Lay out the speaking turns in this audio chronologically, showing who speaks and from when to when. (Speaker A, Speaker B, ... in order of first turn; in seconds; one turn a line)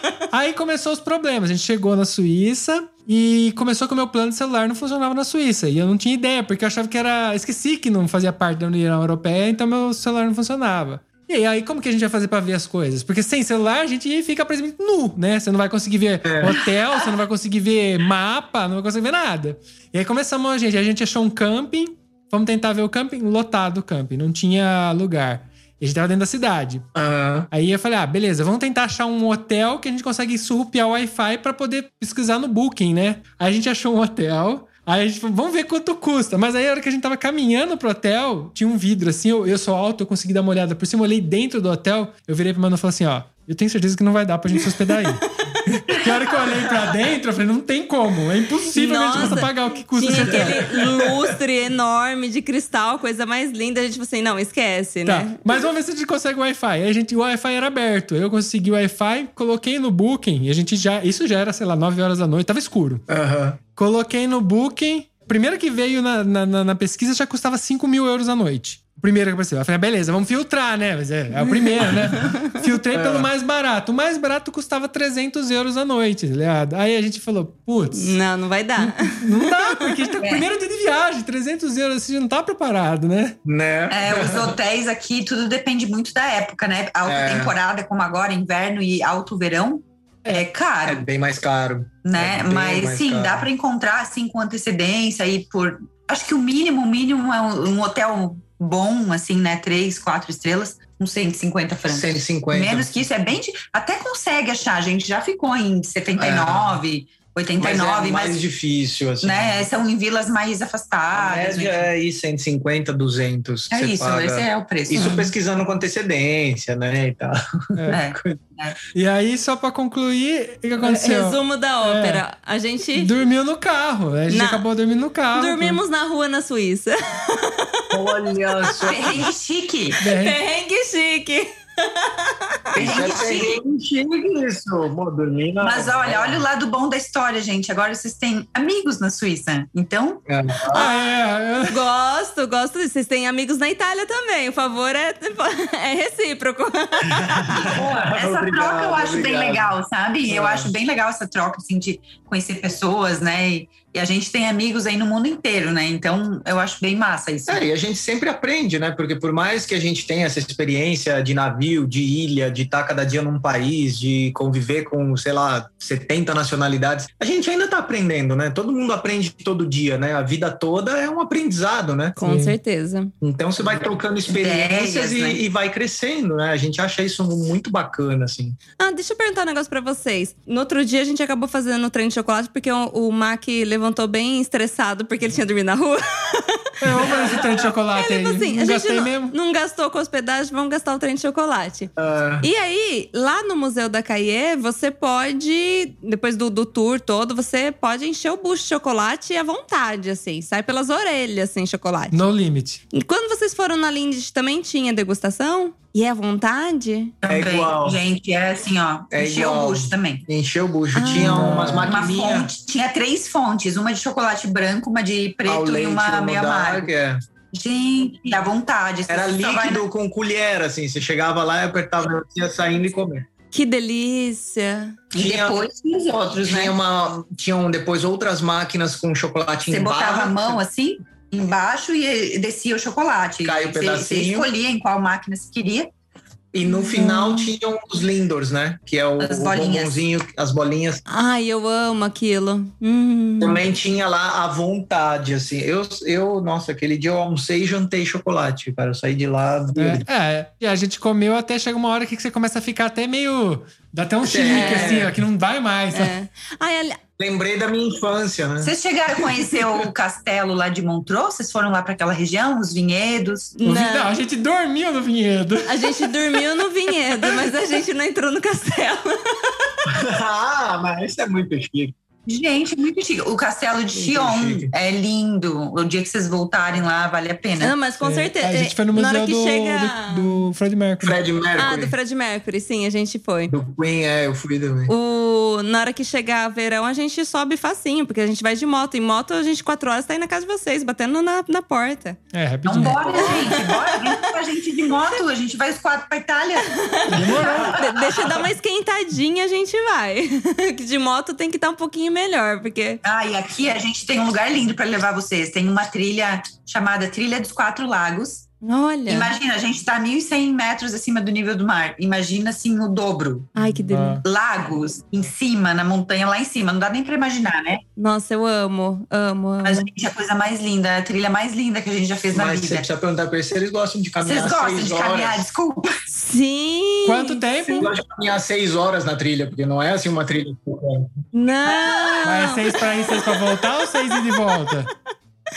Speaker A: 0.3-26.8
Speaker B: 16.2-16.6
Speaker B: 26.9-27.5
Speaker A: 27.5-50.8
Speaker B: 46.5-46.9
Speaker C: 48.7-55.6
Speaker B: 50.2-51.4
Speaker A: 55.1-63.0
Speaker B: 63.1-63.6
Speaker A: 63.8-78.2
Speaker C: 71.4-72.5
Speaker B: 72.9-73.3
Speaker C: 77.9-80.0
Speaker A: 78.8-83.4
Speaker D: 80.2-80.5
Speaker B: 83.5-84.6
Speaker D: 83.9-91.0
Speaker B: 87.0-87.6
Speaker B: 90.8-93.5
Speaker D: 92.0-108.4
Speaker B: 101.9-103.1
Speaker B: 106.2-106.8
Speaker B: 107.6-109.7
Speaker D: 109.2-111.9
Speaker B: 111.1-118.4
Speaker D: 113.7-115.3
Speaker D: 117.9-118.8
Speaker A: 118.9-122.2
Speaker C: 120.8-123.1
Speaker A: 123.0-125.8
Speaker C: 124.3-124.6
Speaker C: 125.3-127.8
Speaker B: 127.9-129.3
Speaker D: 128.8-130.0
Speaker A: 130.0-130.4
Speaker C: 130.0-132.7
Speaker B: 132.8-136.4
Speaker D: 132.8-133.6
Speaker D: 135.6-140.2
Speaker B: 140.3-140.9
Speaker A: 140.7-141.8
Speaker C: 140.7-141.0
Speaker C: 141.7-147.7
Speaker B: 147.3-149.7
Speaker D: 147.6-157.6
Speaker B: 150.3-150.7
Speaker B: 157.5-172.2
Speaker C: 172.2-173.1
Speaker A: 172.2-172.6
Speaker B: 173.2-178.6
Speaker D: 174.3-175.4
Speaker C: 178.8-187.2
Speaker A: 186.8-189.3
Speaker C: 188.0-191.9
Speaker B: 192.0-192.5
Speaker C: 192.4-202.2
Speaker A: 202.1-202.8
Speaker C: 202.9-207.1
Speaker D: 207.2-210.2
Speaker B: 207.2-208.0
Speaker B: 209.1-212.5
Speaker C: 210.9-211.6
Speaker A: 211.1-211.9
Speaker D: 211.8-216.9
Speaker B: 215.5-217.2
Speaker D: 217.5-219.8
Speaker B: 219.1-223.3
Speaker C: 223.5-225.0
Speaker D: 225.1-226.8
Speaker B: 225.2-225.6
Speaker B: 226.5-230.6
Speaker D: 229.7-235.9
Speaker B: 233.4-234.5
Speaker B: 236.5-241.0
Speaker C: 236.7-237.5
Speaker D: 239.2-240.0
Speaker C: 241.1-243.6
Speaker B: 243.4-250.1
Speaker A: 249.8-256.1
Speaker B: 254.2-255.2
Speaker C: 254.5-255.0
Speaker C: 255.9-257.0
Speaker B: 257.2-259.8
Speaker D: 258.6-263.5
Speaker C: 263.6-264.1
Speaker A: 263.6-266.4
Speaker C: 265.7-269.5
Speaker B: 269.9-271.9
Speaker D: 272.3-277.8
Speaker B: 273.9-274.7
Speaker C: 277.6-280.4
Speaker A: 278.0-281.2
Speaker B: 281.0-281.9
Speaker C: 281.6-283.5
Speaker B: 283.5-284.9
Speaker C: 284.9-292.2
Speaker A: 292.3-293.4
Speaker D: 292.6-298.3
Speaker B: 292.8-293.6
Speaker C: 293.2-293.9
Speaker C: 296.8-303.0
Speaker A: 297.1-297.8
Speaker B: 297.2-297.6
Speaker D: 303.1-308.5
Speaker C: 308.6-309.4
Speaker D: 309.1-313.5
Speaker C: 313.6-314.2
Speaker A: 313.6-314.2
Speaker D: 314.2-317.8
Speaker C: 318.0-319.8
Speaker D: 319.6-322.9
Speaker B: 322.3-325.4
Speaker D: 324.2-326.0
Speaker C: 326.1-327.9
Speaker A: 327.1-327.9
Speaker B: 327.8-331.2
Speaker C: 331.3-334.4
Speaker D: 331.7-332.2
Speaker A: 332.2-334.9